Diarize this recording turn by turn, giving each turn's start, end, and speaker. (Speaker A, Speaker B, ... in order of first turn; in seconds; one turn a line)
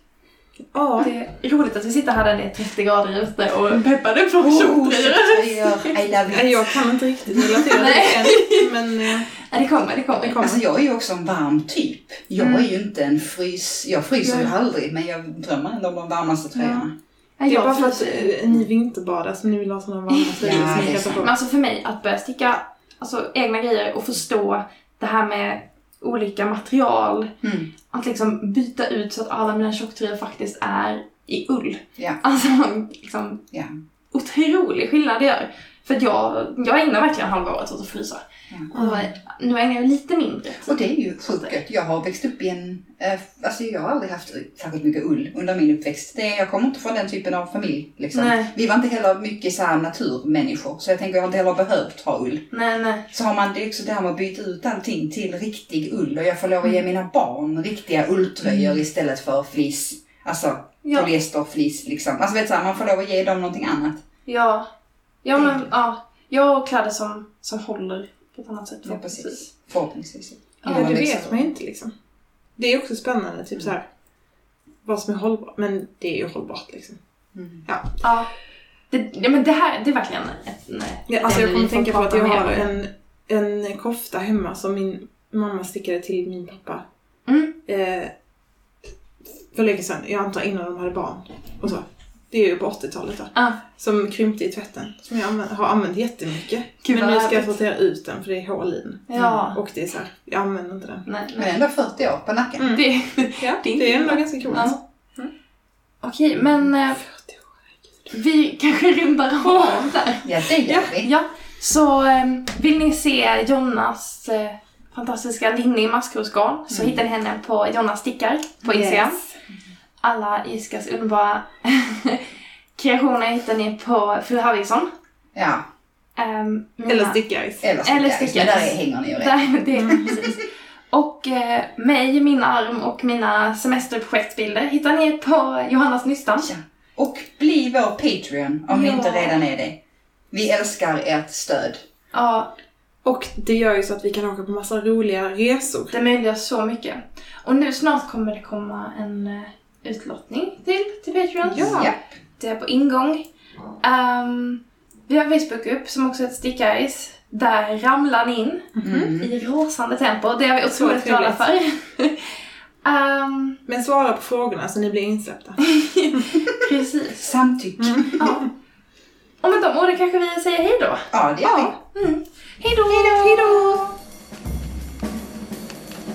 Speaker A: 0.7-1.1
Speaker B: 1.0-6.0
Speaker C: 4.4-6.8
Speaker A: 6.3-9.3
Speaker B: 7.3-10.5
Speaker C: 10.2-16.9
Speaker A: 10.2-10.6
Speaker B: 12.4-12.7
Speaker B: 14.2-14.5
Speaker B: 17.4-18.4
Speaker A: 17.5-21.3
Speaker B: 20.1-27.3
Speaker C: 20.4-21.3
Speaker C: 27.4-27.7
Speaker B: 27.9-33.4
Speaker B: 34.1-41.5
Speaker A: 38.7-39.1
Speaker C: 40.7-52.4
Speaker B: 48.1-48.5
Speaker B: 52.5-53.1
Speaker C: 53.1-64.0
Speaker B: 60.8-61.1
Speaker B: 64.3-64.7
Speaker B: 65.2-69.4
Speaker C: 65.4-65.7
Speaker C: 68.9-71.5
Speaker B: 70.6-71.1
Speaker A: 70.7-71.9
Speaker A: 72.6-73.9
Speaker A: 74.8-77.0
Speaker C: 77.3-77.7
Speaker A: 77.7-78.0
Speaker B: 78.0-78.3
Speaker B: 78.9-82.7
Speaker A: 81.1-86.8
Speaker B: 87.3-87.5
Speaker A: 87.7-88.1
Speaker A: 89.5-101.0
Speaker B: 96.8-97.5
Speaker B: 99.1-99.6
Speaker C: 99.2-99.5
Speaker B: 101.1-101.5
Speaker C: 101.3-102.7
Speaker A: 102.6-102.8
Speaker B: 102.7-104.8
Speaker A: 103.4-105.3
Speaker B: 106.0-107.0
Speaker A: 107.0-107.5
Speaker B: 108.1-110.3
Speaker A: 109.5-109.8
Speaker C: 110.2-111.1
Speaker A: 110.7-111.0
Speaker B: 111.0-119.2
Speaker C: 116.7-117.0
Speaker A: 118.7-119.2
Speaker B: 120.0-124.9
Speaker C: 125.3-125.7
Speaker B: 126.2-127.2
Speaker A: 126.9-127.7
Speaker C: 127.6-129.4
Speaker B: 127.8-136.5
Speaker A: 129.8-130.2
Speaker C: 129.9-130.2
Speaker C: 136.4-139.8
Speaker B: 138.7-139.4
Speaker C: 140.3-141.8
Speaker B: 142.1-142.5
Speaker A: 143.1-145.9
Speaker B: 145.9-153.2
Speaker A: 151.5-151.9
Speaker C: 151.5-152.0
Speaker B: 153.8-163.6
Speaker A: 158.8-159.1
Speaker C: 158.8-159.3
Speaker A: 160.7-161.4
Speaker A: 163.7-166.3
Speaker B: 165.6-167.3
Speaker C: 167.2-168.3
Speaker A: 167.8-168.5
Speaker B: 168.2-168.5
Speaker B: 169.4-173.8
Speaker C: 171.1-171.7
Speaker C: 172.9-174.0